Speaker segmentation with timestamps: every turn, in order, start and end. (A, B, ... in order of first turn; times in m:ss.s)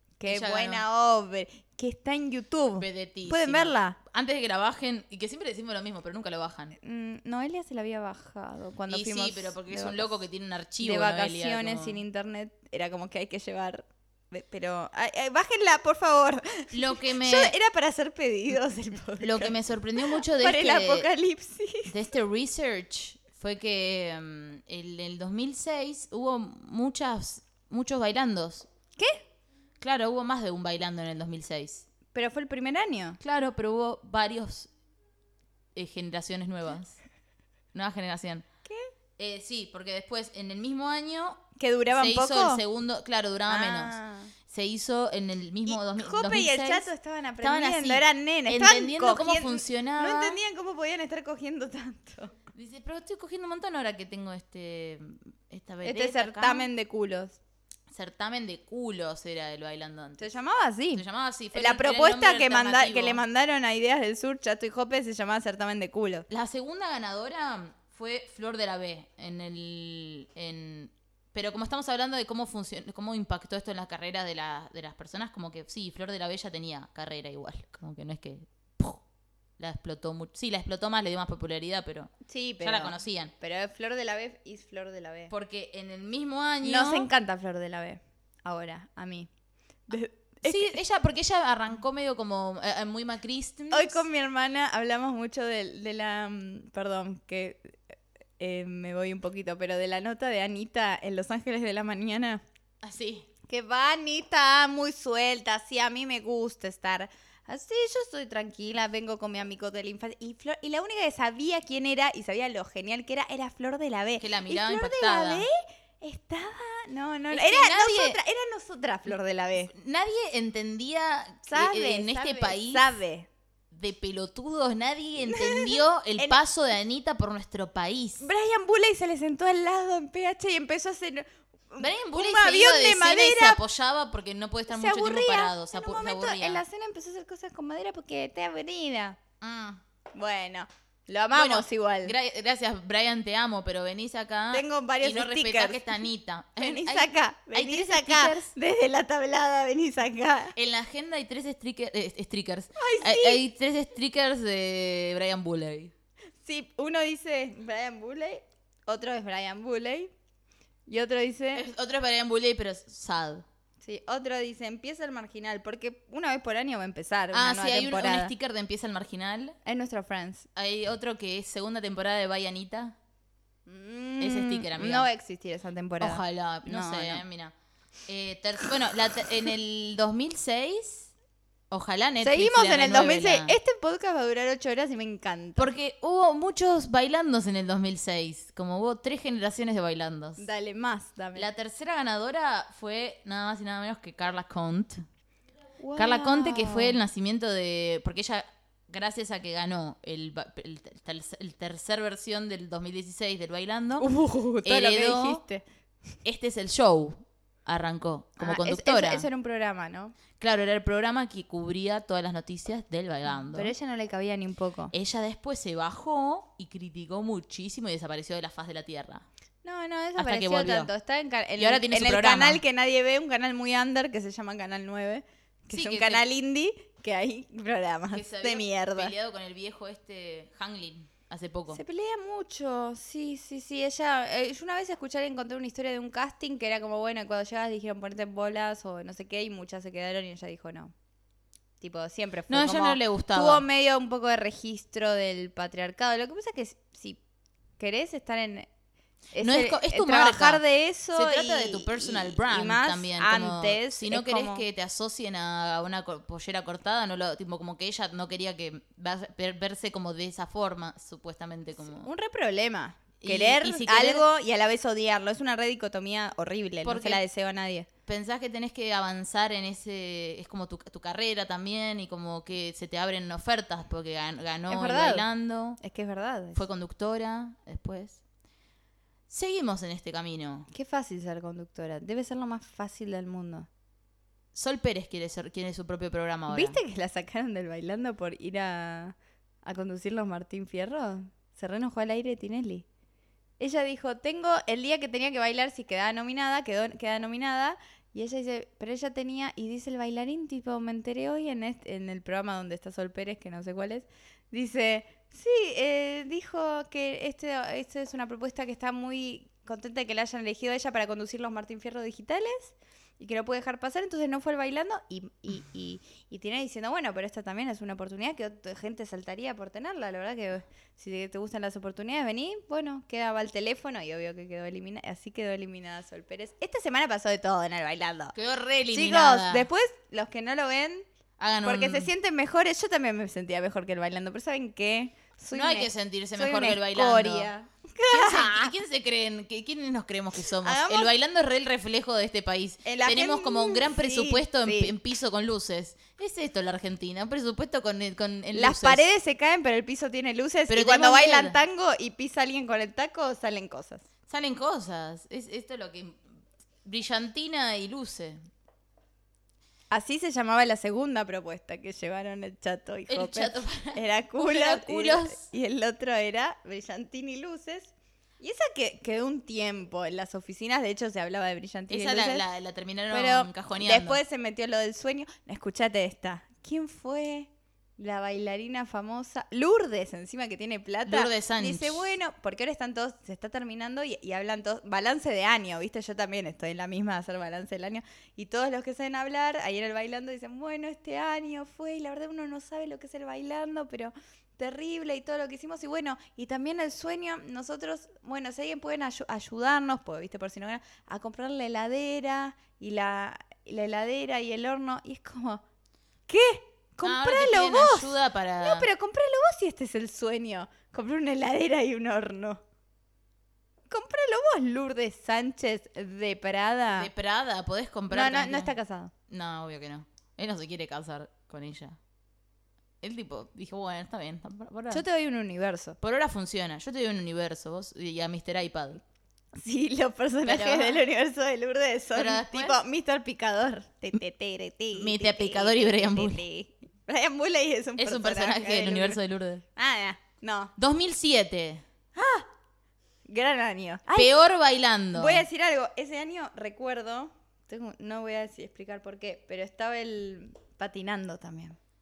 0:00.2-0:04.0 A
0:00.2-0:00.8 B
0:02.8-0:06.8 B
0:06.8-0:10.2 A
0:08.9-0:12.0 B
0:10.8-0:21.9 A
0:16.7-0:17.5 B
0:19.2-0:21.1 B
0:21.8-0:28.7 B
0:29.0-0:29.2 A
0:29.8-0:31.9 B
0:32.1-0:33.2 A
0:33.2-0:34.7 B
0:35.7-0:37.0 B
0:37.7-0:38.4 B
0:39.2-0:46.9 B
0:41.6-0:42.6 A
0:43.5-0:44.3 A
0:45.7-0:52.3 A
0:47.4-0:50.4 B
0:52.5-0:56.7 B
0:55.8-0:57.4 A
0:57.9-1:00.3 B
1:00.2-1:06.3 A
1:00.9-1:03.2 B
1:06.3-1:19.0 B
1:19.6-1:23.3 B
1:22.2-1:25.3 A
1:25.3-1:27.1 B
1:26.6-1:29.3 A
1:29.9-1:30.8 A
1:30.4-1:34.0 B
1:33.7-1:42.4 A
1:42.8-1:43.3 B
1:43.5-1:59.7 A
1:54.2-1:55.5 B
1:57.3-1:58.2 B
1:59.7-2:02.9 B
2:01.5-2:03.3 A
2:03.7-2:08.3 B
2:05.2-2:06.4 A
2:08.2-2:13.6 A
2:11.8-2:16.6 B
2:14.7-2:19.2 A
2:19.4-2:19.8 B
2:20.1-2:22.1 A
2:21.3-2:28.5 B
2:24.5-2:26.0 A
2:26.6-2:30.5 A
2:30.5-2:35.9 B
2:32.8-2:33.4 A
2:36.4-2:40.1 A
2:40.9-2:41.6 A
2:41.5-2:43.4 B
2:43.8-2:48.3 A
2:47.3-2:49.6 B
2:49.6-2:50.5 A
2:50.5-2:53.0 B
2:53.6-2:57.2 A
2:54.2-2:55.1 B
2:56.0-2:57.5 B
2:58.1-3:01.1 B
3:01.7-3:03.6 B
3:02.2-3:05.7 A
3:05.6-3:10.4 B
3:10.4-3:11.5 A
3:11.3-3:15.0 B
3:15.8-3:17.0 A
3:16.0-3:24.1 B
3:24.0-3:25.6 A
3:24.6-3:25.4 B
3:26.2-3:29.3 B
3:28.4-3:30.1 A
3:30.4-3:33.7 B
3:33.3-3:34.9 A
3:34.9-3:39.2 B
3:39.6-3:49.1 A
3:40.2-3:40.9 B
3:41.6-3:42.6 B
3:45.7-3:46.2 B
3:48.1-3:51.8 B
3:51.7-4:00.9 A
4:01.8-4:07.2 A
4:02.5-4:03.6 B
4:07.8-4:08.7 A
4:09.3-4:14.6 A
4:09.4-4:22.1 B
4:21.9-4:27.9 A
4:23.2-4:24.2 B
4:26.8-4:27.2 B
4:28.0-4:35.8 B
4:34.7-4:35.3 A
4:35.8-4:36.6 A
4:36.5-4:38.2 B
4:39.3-4:40.7 B
4:40.7-4:43.7 A
4:44.5-4:46.8 B
4:46.5-4:52.8 A
4:53.6-5:28.3 A
5:28.3-5:29.7 B
5:28.9-5:31.0 A
5:31.4-5:32.1 B
5:31.6-5:38.7 A
5:35.5-5:37.5 B
5:38.1-5:49.0 B
5:40.5-5:41.1 A
5:42.8-5:44.9 A
5:48.5-5:54.0 A
5:50.7-5:51.6 B
5:54.3-5:56.2 B
5:56.8-5:58.5 B
5:59.9-6:12.4 A
6:03.1-6:05.5 B
6:11.9-6:14.2 B
6:13.1-6:45.6 A
6:21.0-6:22.1 B
6:46.3-6:52.6 A
6:47.0-6:48.9 B
6:53.9-6:57.1 A
6:56.9-6:58.7 B
6:58.1-6:59.1 A
6:59.3-7:02.0 B
7:03.0-7:05.0 B
7:04.9-7:06.0 A
7:06.0-7:09.0 B
7:09.5-7:19.2 A
7:10.4-7:11.0 B
7:12.1-7:12.8 B
7:14.9-7:16.4 B
7:18.0-7:19.6 B
7:19.8-7:20.7 A
7:20.8-7:21.8 B
7:22.1-7:22.5 A
7:23.2-7:24.3 A
7:24.2-7:25.4 B
7:25.1-7:31.8 A